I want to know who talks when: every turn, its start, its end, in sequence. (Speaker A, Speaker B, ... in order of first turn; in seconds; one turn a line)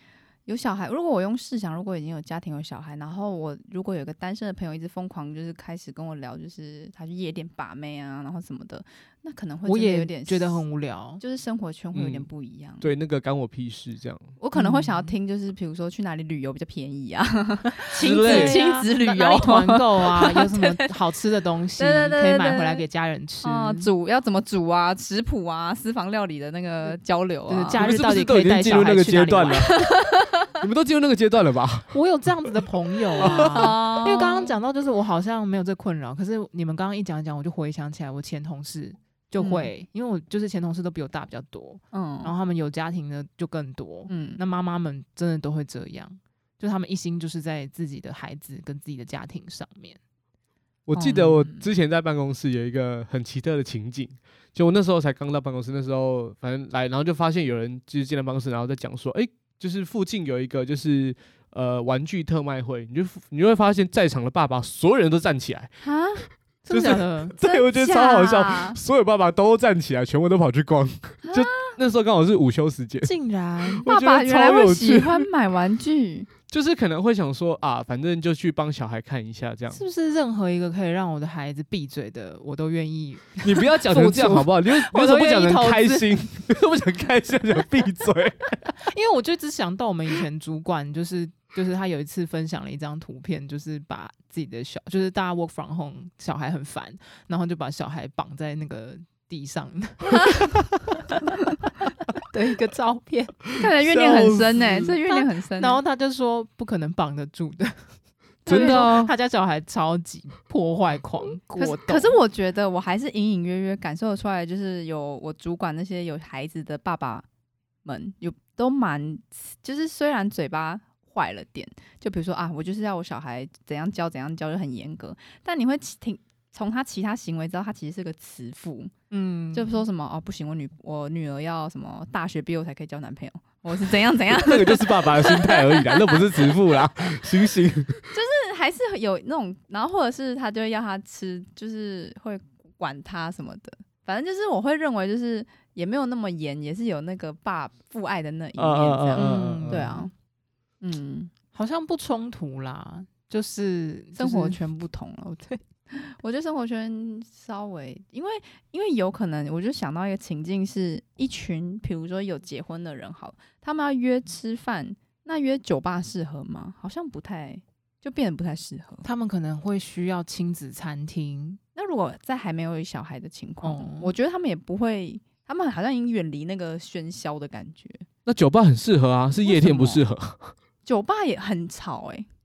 Speaker A: 0.5-10.6
Speaker B: 9.7-11.2
Speaker A: 11.2-12.8
Speaker C: 11.9-12.3
Speaker C: 12.8-14.3
Speaker A: 14.4-20.9
Speaker B: 14.5-15.1
Speaker C: 18.0-18.6
Speaker B: 18.1-23.9
Speaker A: 21.8-22.8
Speaker A: 23.4-27.8
Speaker B: 27.5-29.7
Speaker C: 27.8-29.8
Speaker A: 29.8-30.5
Speaker C: 30.6-32.5
Speaker B: 31.9-50.0
Speaker A: 33.2-34.5
Speaker C: 33.2-33.8
Speaker A: 39.4-39.7
Speaker A: 41.9-42.3
Speaker A: 44.1-44.4
Speaker C: 50.9-65.7
Speaker A: 50.9-51.7
Speaker A: 65.8-66.2
Speaker B: 66.6-67.3
Speaker C: 66.7-73.1
Speaker A: 67.4-68.8
Speaker A: 71.2-71.8
Speaker B: 73.0-73.8
Speaker C: 73.7-75.3
Speaker A: 73.9-76.3
Speaker C: 76.5-79.8
Speaker B: 79.7-86.1
Speaker C: 83.4-88.7
Speaker B: 88.7-100.4
Speaker A: 100.1-100.5
Speaker A: 101.1-101.4
Speaker B: 102.2-103.4
Speaker C: 103.5-104.9
Speaker A: 103.5-105.8
Speaker B: 105.1-107.8
Speaker B: 108.4-112.2
Speaker A: 108.5-108.9
Speaker C: 108.5-109.1
Speaker A: 111.5-117.2
Speaker A: 117.8-128.9
Speaker B: 129.1-129.8
Speaker A: 129.5-136.5
Speaker C: 134.3-138.1
Speaker A: 138.1-150.1
Speaker C: 148.6-149.9
Speaker B: 149.1-150.1
Speaker A: 150.8-151.3
Speaker B: 151.5-154.6
Speaker A: 154.2-169.1
Speaker B: 169.0-171.6
Speaker A: 171.8-178.1
Speaker B: 173.6-174.1
Speaker C: 178.2-180.5
Speaker A: 179.4-180.0
Speaker A: 180.8-182.3